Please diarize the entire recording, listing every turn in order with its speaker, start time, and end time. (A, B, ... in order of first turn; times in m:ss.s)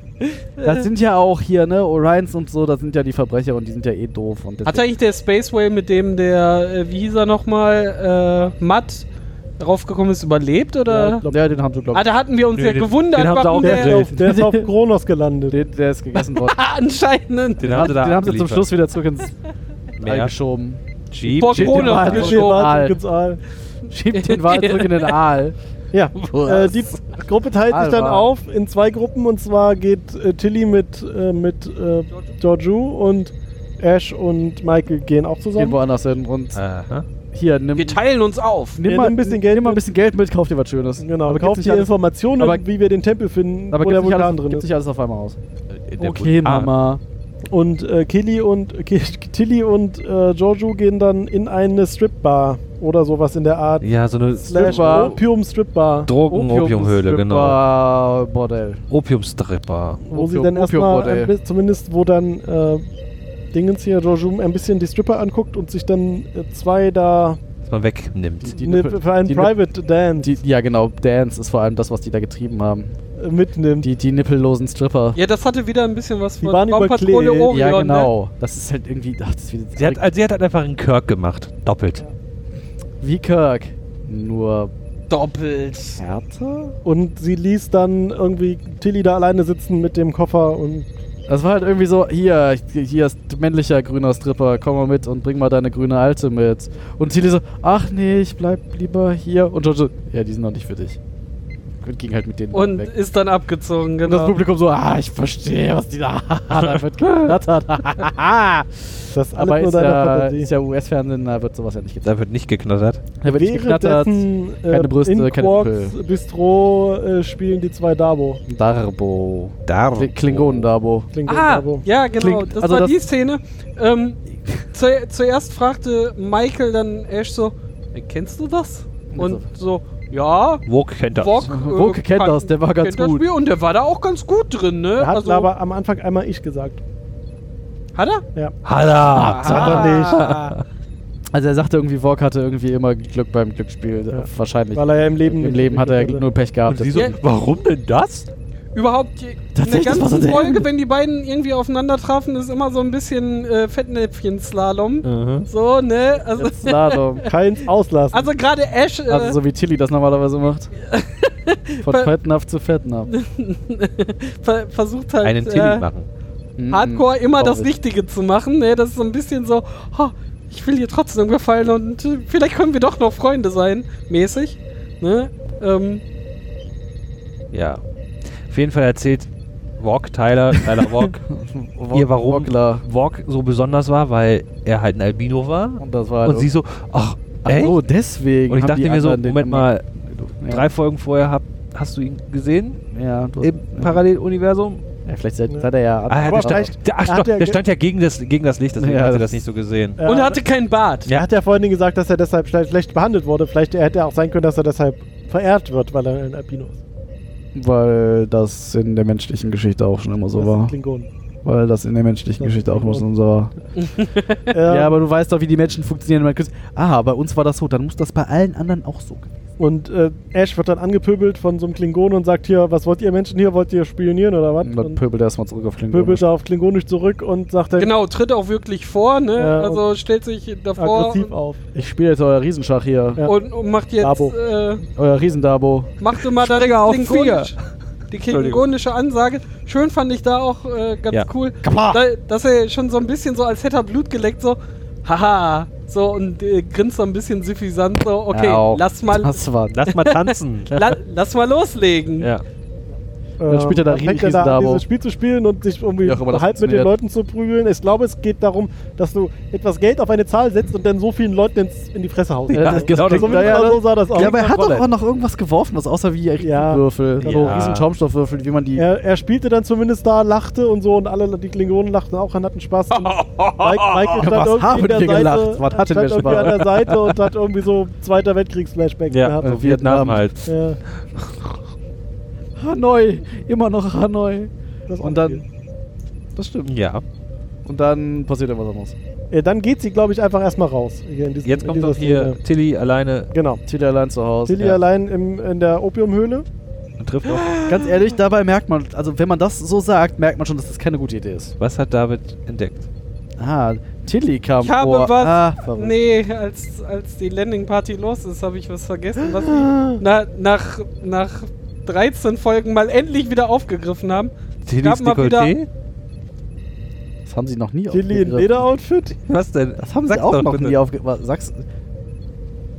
0:00.2-0:00.9 A
0:00.6-0:04.9 B
0:04.6-0:09.1 A
0:09.6-0:11.2 A
0:10.9-0:11.6 C
0:11.3-0:12.1 B
0:11.9-0:14.1 A
0:12.6-0:14.2 D
0:13.6-0:15.6 C
0:14.2-0:14.7 B
0:15.5-0:16.6 B
0:16.2-0:17.9 A
0:17.6-0:18.7 D
0:17.6-0:19.3 B
0:20.0-0:20.3 D
0:20.0-0:23.0 B
0:21.1-0:22.0 D
0:21.3-0:22.7 A
0:21.8-0:23.4 C
0:23.9-0:25.6 B
0:24.1-0:25.2 A
0:25.9-0:35.8 C
0:26.2-0:26.8 B
0:27.7-0:28.3 B
0:35.6-0:36.6 B
0:36.6-0:37.1 D
0:37.3-0:38.0 B
0:37.8-0:38.8 A
0:38.8-0:42.6 B
0:38.8-0:39.8 C
0:41.0-0:44.6 C
0:43.7-0:45.4 B
0:45.8-0:46.7 D
0:46.0-0:47.0 B
0:47.5-0:53.9 C
0:53.8-0:55.2 D
0:54.4-0:56.1 C
0:54.5-0:55.2 B
0:56.1-0:57.6 D
0:56.3-0:58.8 B
0:58.9-1:00.0 D
1:00.0-1:02.9 C
1:00.1-1:01.3 B
1:03.5-1:07.4 C
1:07.6-1:08.6 D
1:08.4-1:09.6 B
1:08.6-1:10.4 C
1:10.2-1:13.0 B
1:13.2-1:13.9 C
1:13.8-1:15.2 B
1:15.2-1:18.1 A
1:16.4-1:17.5 C
1:17.5-1:20.1 B
1:19.8-1:22.0 D
1:23.0-1:24.7 B
1:25.1-1:26.0 A
1:26.0-1:26.8 B
1:26.8-1:30.9 C
1:31.3-1:41.0 B
1:41.8-1:42.9 B
1:42.5-1:44.4 A
1:44.0-1:48.7 B
1:49.1-1:50.5 C
1:49.3-1:52.1 B
1:52.0-1:53.1 D
1:53.2-1:56.0 B
1:53.2-1:58.4 C
1:58.5-2:01.1 B
1:59.7-2:00.7 D
2:01.1-2:01.8 C
2:01.3-2:04.2 A
2:02.2-2:03.0 B
2:04.7-2:15.5 A
2:09.1-2:09.4 B
2:10.7-2:11.5 D
2:11.5-2:13.2 B
2:15.0-2:16.8 C
2:18.0-2:18.2 A
2:18.6-2:20.6 D
2:19.1-2:20.6 A
2:19.2-2:19.9 B
2:19.5-2:20.2 C
2:21.3-2:27.2 B
2:24.1-2:26.2 C
2:26.7-2:28.3 D
2:28.8-2:37.3 A
2:29.6-2:30.7 B
2:35.0-2:35.5 D
2:36.4-2:37.2 B
2:37.3-2:38.3 C
2:38.1-2:39.4 A
2:39.1-2:40.7 B
2:40.8-2:42.1 A
2:41.8-2:43.1 B
2:43.1-2:45.9 A
2:45.2-2:46.1 D
2:46.6-2:47.7 B
2:46.7-2:56.0 A
2:57.5-2:57.8 D
2:58.4-3:01.2 D
3:00.5-3:02.8 B
3:01.9-3:07.8 D
3:05.8-3:06.5 B
3:07.4-3:10.7 B
3:08.5-3:09.8 D
3:10.4-3:12.8 D
3:12.9-3:14.0 B
3:13.4-3:14.8 D
3:15.1-3:16.7 B
3:16.1-3:20.0 D
3:16.2-3:17.6 C
3:18.8-3:19.4 B
3:20.0-3:20.4 C
3:20.1-3:21.1 A
3:21.1-3:26.8 C
3:27.5-3:30.7 B
3:30.4-3:31.1 C
3:31.4-3:33.5 B
3:32.4-3:33.0 C
3:33.8-3:34.5 A
3:34.5-3:35.0 C
3:34.7-3:39.3 B
3:39.6-3:45.0 C
3:44.6-3:46.2 B
3:45.9-3:48.0 C
3:47.8-3:51.3 A
3:49.4-3:49.8 C
3:50.8-3:51.7 C
3:51.8-3:53.3 B
3:53.3-3:54.8 A
3:54.0-3:54.4 C
3:55.0-3:55.9 B
3:56.0-3:57.6 A
3:56.4-3:57.6 D
3:58.1-4:12.3 A
3:58.3-3:58.6 D
4:01.1-4:02.0 D
4:01.6-4:02.0 B
4:08.3-4:10.0 B
4:09.7-4:11.0 D
4:13.4-4:24.8 C
4:13.5-4:14.8 B
4:16.0-4:17.0 B
4:22.5-4:23.7 D
4:22.5-4:28.8 B
4:26.4-4:27.7 C
4:27.2-4:27.9 D
4:28.8-4:39.5 C
4:33.1-4:34.2 D
4:34.2-4:36.8 B
4:39.1-4:40.5 D
4:39.4-4:40.3 B
4:40.5-4:40.8 C
4:42.6-4:45.4 B
4:44.9-4:45.4 C
4:46.4-4:46.7 B
4:46.7-4:47.0 D
4:47.6-4:49.0 B
4:49.3-4:52.4 C
4:51.4-4:53.3 D
4:53.3-4:53.6 C
4:53.7-4:54.8 B
4:54.4-4:56.5 C
4:57.0-4:57.6 D
4:57.3-4:57.8 A
4:57.6-5:01.5 B
5:01.6-5:02.8 D
5:03.4-5:06.0 B
5:04.6-5:15.5 A
5:09.2-5:10.0 C
5:14.7-5:15.7 D
5:17.3-5:18.7 B
5:17.9-5:19.2 C
5:19.3-5:20.8 D
5:19.8-5:21.6 B